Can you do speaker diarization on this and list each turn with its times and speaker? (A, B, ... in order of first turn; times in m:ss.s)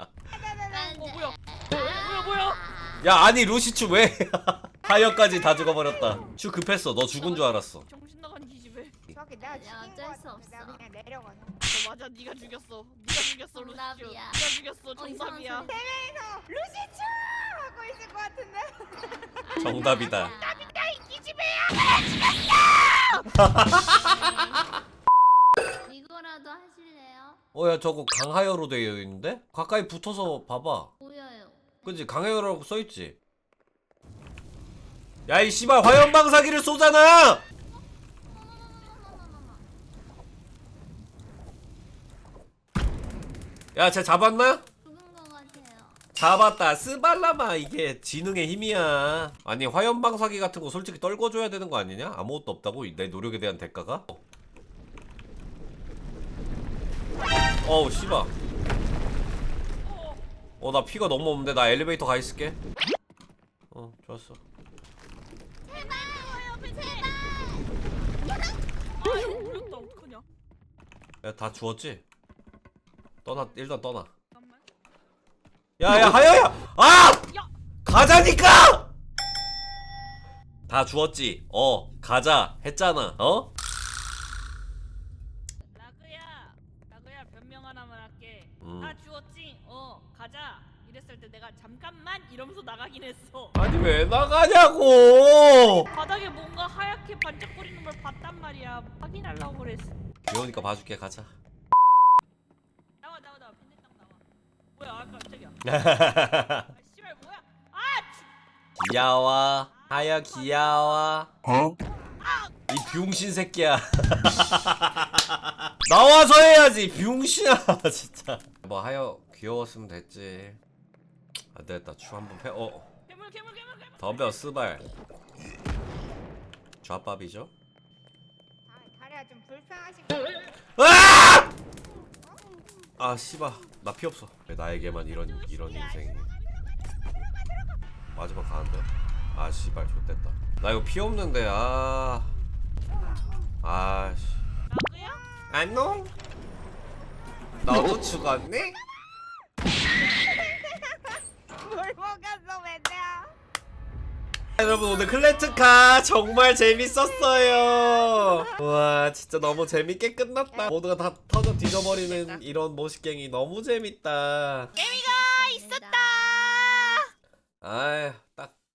0:00.3-0:01.0 A
0:00.7-0:03.1 B
0:01.0-0:02.6 C
0:03.0-0:07.9 D
0:05.2-0:06.2 A
0:07.2-0:09.0 C
0:09.1-0:11.6 A
0:09.4-0:10.8 B
0:11.6-0:15.7 C
0:13.5-0:15.8 B
0:15.6-0:19.9 A
0:19.4-0:20.9 B
0:19.6-0:20.3 D
0:20.3-0:22.3 C
0:23.1-0:24.4 D
0:23.6-0:24.7 B
0:25.8-0:27.4 B
0:27.5-0:30.9 D
0:31.0-0:32.0 B
0:31.8-0:33.2 D
0:35.3-0:37.4 D
0:38.2-0:39.7 B
0:43.8-0:44.6 D
0:44.8-0:46.0 B
0:46.1-0:54.2 D
0:57.6-0:58.3 D
0:59.8-1:00.2 C
1:00.6-1:02.6 D
1:03.7-1:04.4 D
1:05.6-1:09.3 B
1:05.7-1:07.1 C
1:09.0-1:10.2 C
1:11.2-1:12.0 D
1:13.2-1:14.1 D
1:14.3-1:14.6 C
1:15.8-1:17.3 D
1:17.8-1:18.9 D
1:20.7-1:23.5 D
1:25.7-1:33.6 C
1:28.6-1:29.0 D
1:33.6-1:35.9 D
1:35.9-1:40.8 C
1:40.2-1:41.3 D
1:43.0-1:44.2 C
1:44.8-1:48.3 C
1:45.6-1:46.7 D
1:48.8-1:51.3 D
1:49.7-1:51.2 C
1:52.2-1:52.6 C
1:52.7-2:00.6 D
2:01.5-2:02.9 D
2:03.1-2:04.4 C
2:04.0-2:04.8 D
2:06.8-2:07.5 D
2:08.7-2:10.5 A
2:10.8-2:11.5 D
2:12.2-2:12.5 A
2:13.0-2:16.3 D
2:14.8-2:16.5 C
2:18.1-2:22.3 D
2:23.6-2:24.4 D
2:24.7-2:25.2 C
2:25.5-2:26.1 D
2:27.6-2:28.8 D
2:29.8-2:33.4 A
2:34.6-2:44.7 D
2:44.7-2:47.0 B
2:44.7-2:47.0 C
2:47.6-2:48.6 D